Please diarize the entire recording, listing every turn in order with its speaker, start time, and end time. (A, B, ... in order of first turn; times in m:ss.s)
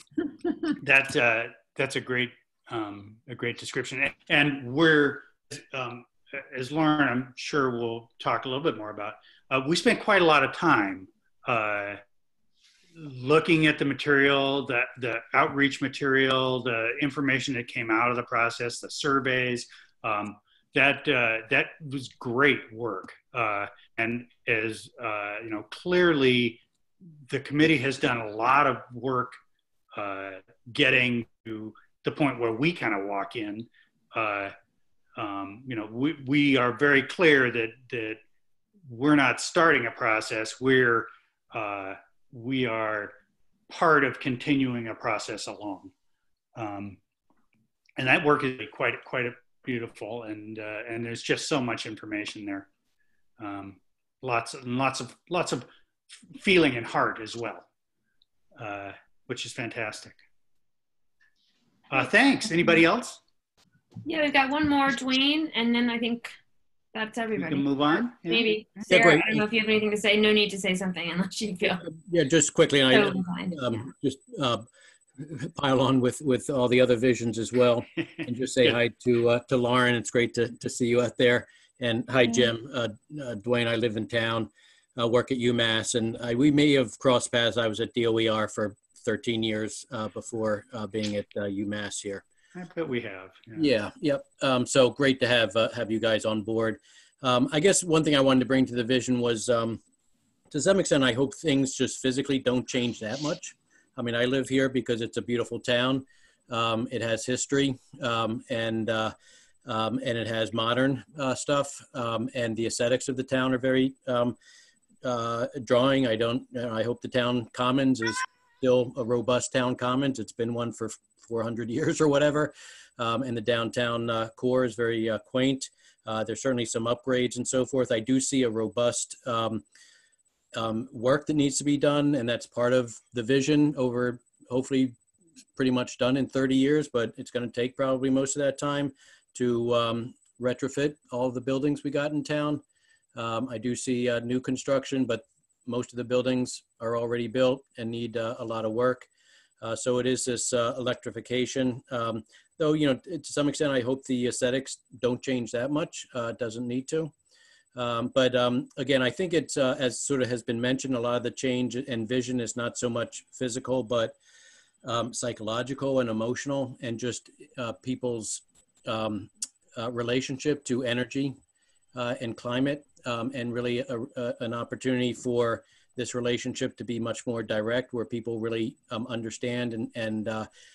0:00.8-0:12.0 A
0:13.0-0:26.6 A
0:27.3-0:29.4 A
0:29.9-0:34.5 A
0:35.2-0:38.2 A
0:38.9-0:43.1 A
0:43.7-0:45.9 A
0:46.6-0:47.0 A
0:48.0-0:52.7 A
0:53.4-0:55.7 A
0:56.2-0:57.6 A
0:58.6-1:00.2 A
1:01.9-1:03.2 A
1:04.0-1:06.3 B
1:06.9-1:11.8 B
1:07.4-1:08.5 A
1:08.9-1:09.4 C
1:12.1-1:14.6 C
1:12.9-1:13.6 B
1:15.2-1:32.2 C
1:32.5-1:33.7 A
1:33.5-1:39.8 C
1:40.5-1:49.1 C
1:49.6-1:54.4 C
1:55.0-2:09.6 C
2:10.5-2:15.0 C
2:15.6-2:22.6 C
2:23.1-2:29.1 C
2:29.6-2:37.1 C
2:37.7-2:44.2 C
2:44.8-2:51.4 C
2:51.9-3:00.5 C